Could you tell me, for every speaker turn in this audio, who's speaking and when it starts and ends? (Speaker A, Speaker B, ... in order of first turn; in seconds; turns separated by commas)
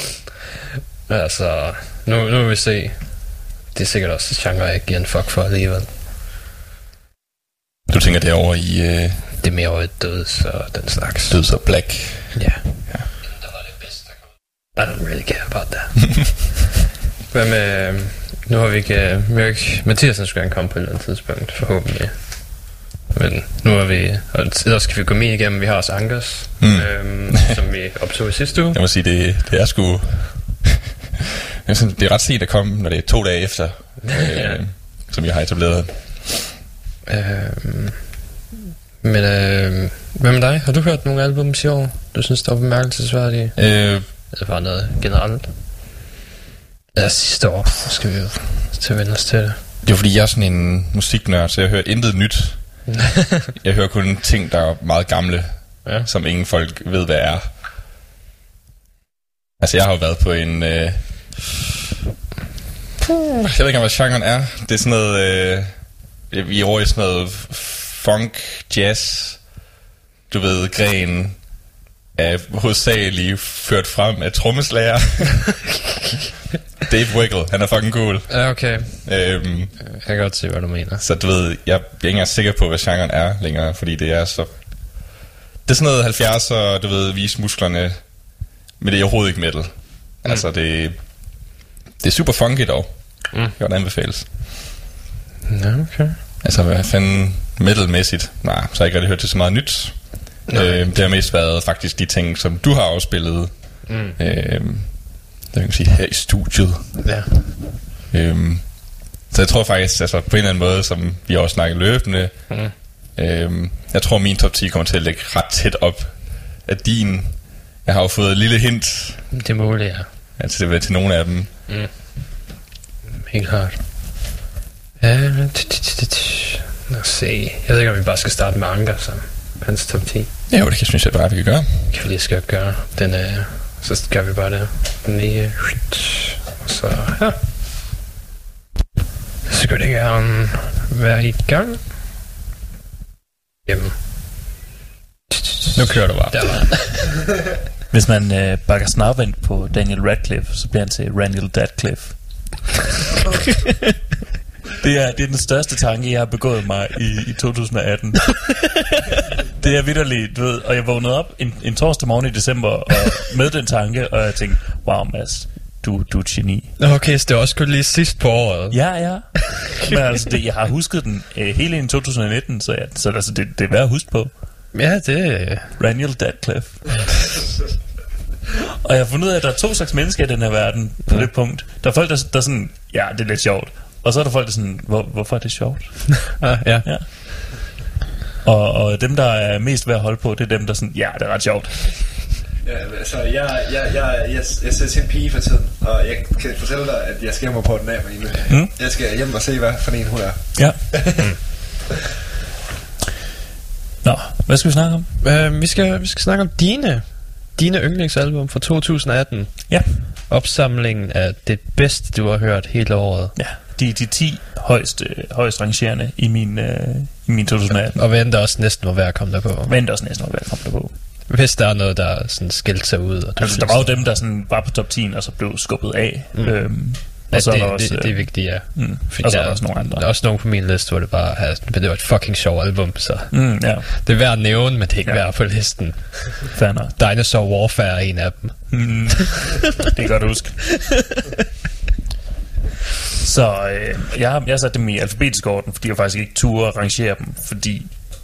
Speaker A: 1.1-5.9, Speaker B: 7.9-9.2, Speaker A: 9.4-12.9, Speaker B: 11.3-13.1, Speaker A: 14.7-16.5, Speaker A: 17.3-28.8, Speaker B: 26.6-27.5, Speaker B: 28.7-30.7, Speaker B: 31.6-36.5, Speaker A: 34.1-34.6, Speaker A: 37.1-38.1, Speaker A: 39.0-45.5, Speaker B: 43.6-44.1, Speaker A: 47.0-49.6, Speaker B: 49.8-57.5, Speaker A: 52.9-53.5, Speaker B: 59.6-61.5, Speaker B: 63.5-69.7, Speaker B: 70.3-75.6, Speaker B: 76.8-79.8, Speaker A: 78.3-81.0, Speaker B: 81.0-94.3, Speaker A: 95.5-96.2, Speaker B: 96.4-107.6, Speaker A: 100.5-101.0, Speaker A: 103.9-104.2, Speaker A: 107.0-107.3, Speaker B: 108.1-119.3, Speaker A: 119.3-120.1, Speaker B: 120.4-121.5, Speaker A: 121.7-122.1, Speaker A: 123.3-124.3, Speaker A: 125.0-130.3, Speaker B: 130.5-131.7, Speaker A: 131.9-137.4, Speaker A: 139.5-141.8, Speaker A: 143.7-144.0, Speaker A: 145.3-147.1, Speaker C: 147.9-152.7, Speaker C: 154.8-159.0, Speaker C: 159.5-166.8, Speaker A: 166.8-170.0, Speaker C: 168.7-174.3, Speaker A: 174.7-175.8, Speaker C: 175.8-177.4, Speaker C: 178.8-187.1, Speaker A: 186.4-186.9, Speaker C: 188.4-192.3, Speaker D: 192.6-201.2, Speaker C: 200.6-201.3, Speaker C: 204.0-205.1, Speaker A: 205.2-213.3, Speaker C: 209.7-210.0, Speaker C: 213.3-218.0, Speaker A: 217.7-219.7, Speaker C: 219.7-220.9, Speaker A: 221.3-224.1, Speaker C: 223.4-230.1, Speaker A: 226.3-239.1, Speaker C: 233.3-234.1, Speaker C: 236.5-236.9, Speaker C: 238.7-241.2, Speaker C: 243.2-248.0